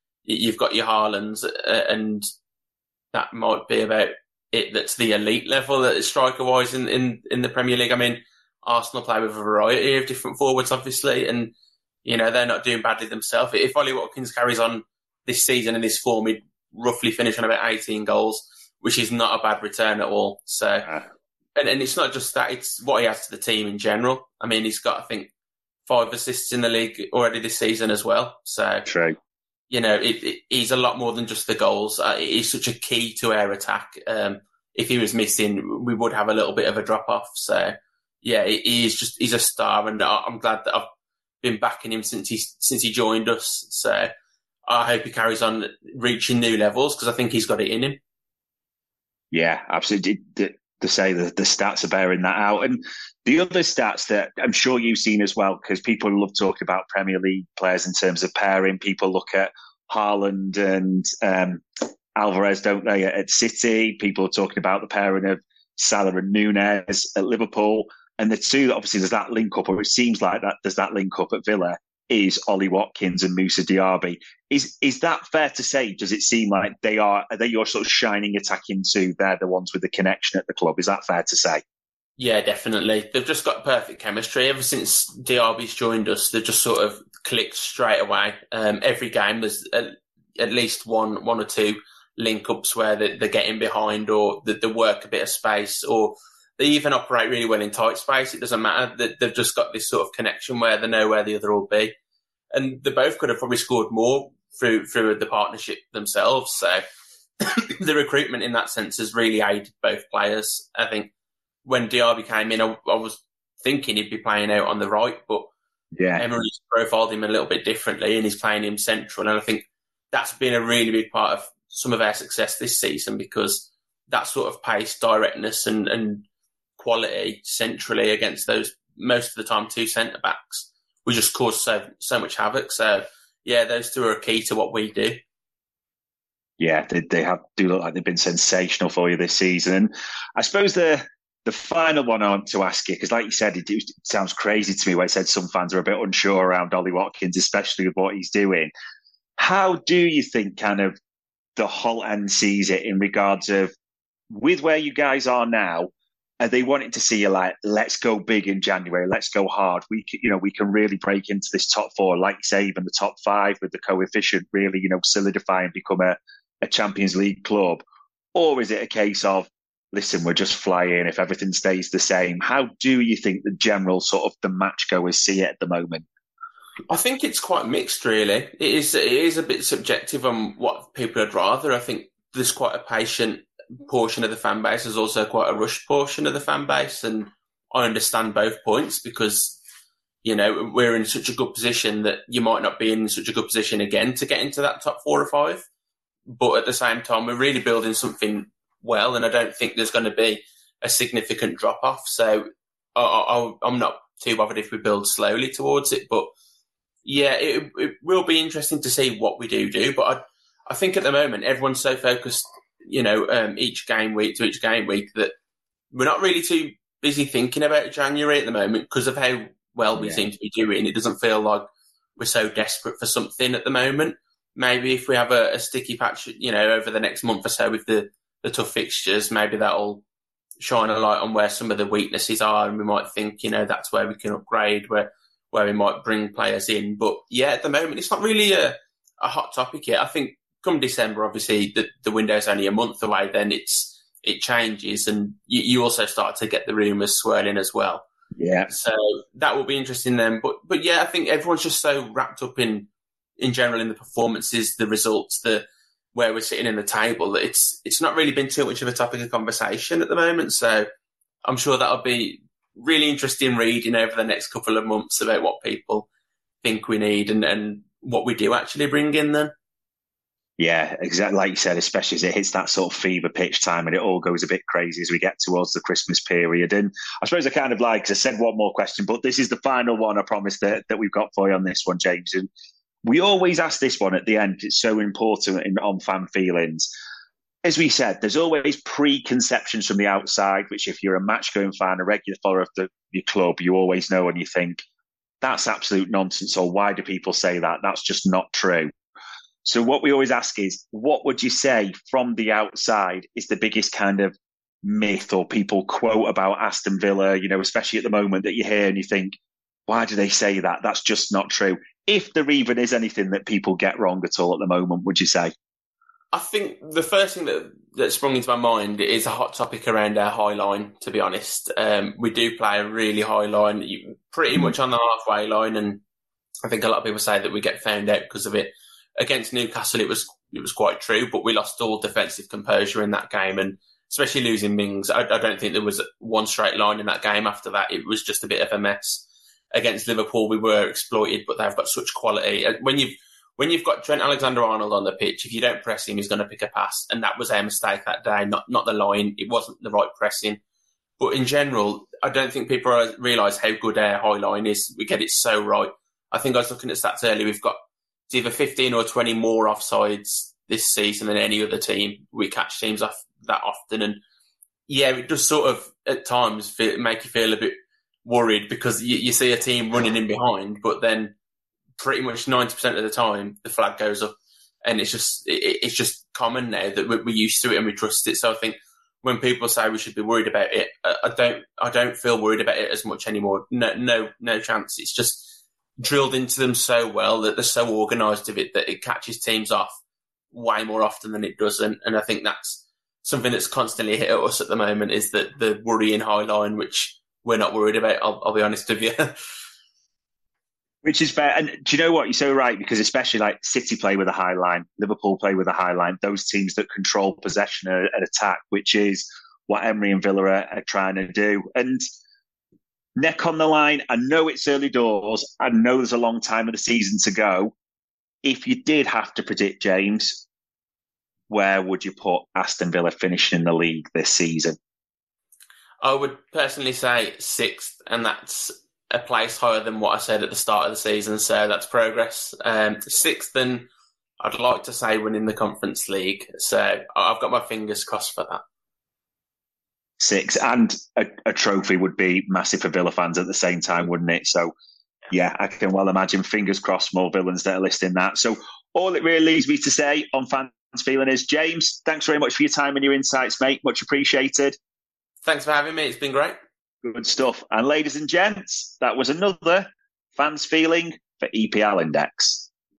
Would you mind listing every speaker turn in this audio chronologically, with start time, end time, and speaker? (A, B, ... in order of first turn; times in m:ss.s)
0:00.2-0:02.2 A
0:03.1-0:11.5 A
0:12.0-0:20.9 A
0:21.6-0:25.3 A
0:25.8-0:28.8 A
0:28.8-0:29.2 B
0:29.7-0:40.9 A
0:41.4-0:44.1 A
0:44.7-0:48.0 A
0:49.3-1:21.6 B
1:22.2-1:41.9 A
1:42.5-1:46.8 A
1:47.4-1:51.1 A
1:51.6-1:55.5 A
1:55.9-1:56.2 B
1:56.2-2:06.2 A
2:06.8-2:15.2 A
2:16.6-2:28.7 B
2:29.4-2:31.0 B
2:31.6-2:33.7 B
2:34.3-2:35.9 B
2:36.4-2:47.8 B
2:48.3-2:56.0 B
2:56.9-3:09.6 A
3:10.2-3:15.6 A
3:16.3-3:26.3 A
3:27.0-3:35.3 A
3:35.9-3:41.7 A
3:40.0-3:40.2 B
3:42.2-3:50.0 A
3:50.6-4:08.0 A
4:08.4-4:08.7 B
4:08.7-4:20.9 A
4:21.4-4:26.1 A
4:26.6-4:29.5 A
4:30.6-4:42.5 B
4:43.0-4:46.9 B
4:47.6-4:54.8 B
4:55.4-4:58.9 B
4:59.6-5:09.3 B
5:09.9-5:15.5 B
5:16.3-5:26.0 A
5:26.6-5:50.6 A
5:51.2-5:57.8 A
5:58.3-6:04.2 A
6:04.9-6:11.3 A
6:12.0-6:14.3 A
6:14.8-6:30.0 A
6:30.5-6:39.3 A
6:41.0-6:52.0 B
6:53.2-6:57.7 B
6:58.4-7:00.4 B
7:01.5-7:04.8 B
7:06.0-7:13.9 A
7:14.4-7:18.6 A
7:20.2-7:24.7 B
7:25.3-7:34.8 B
7:35.4-7:36.6 A
7:37.0-7:42.7 B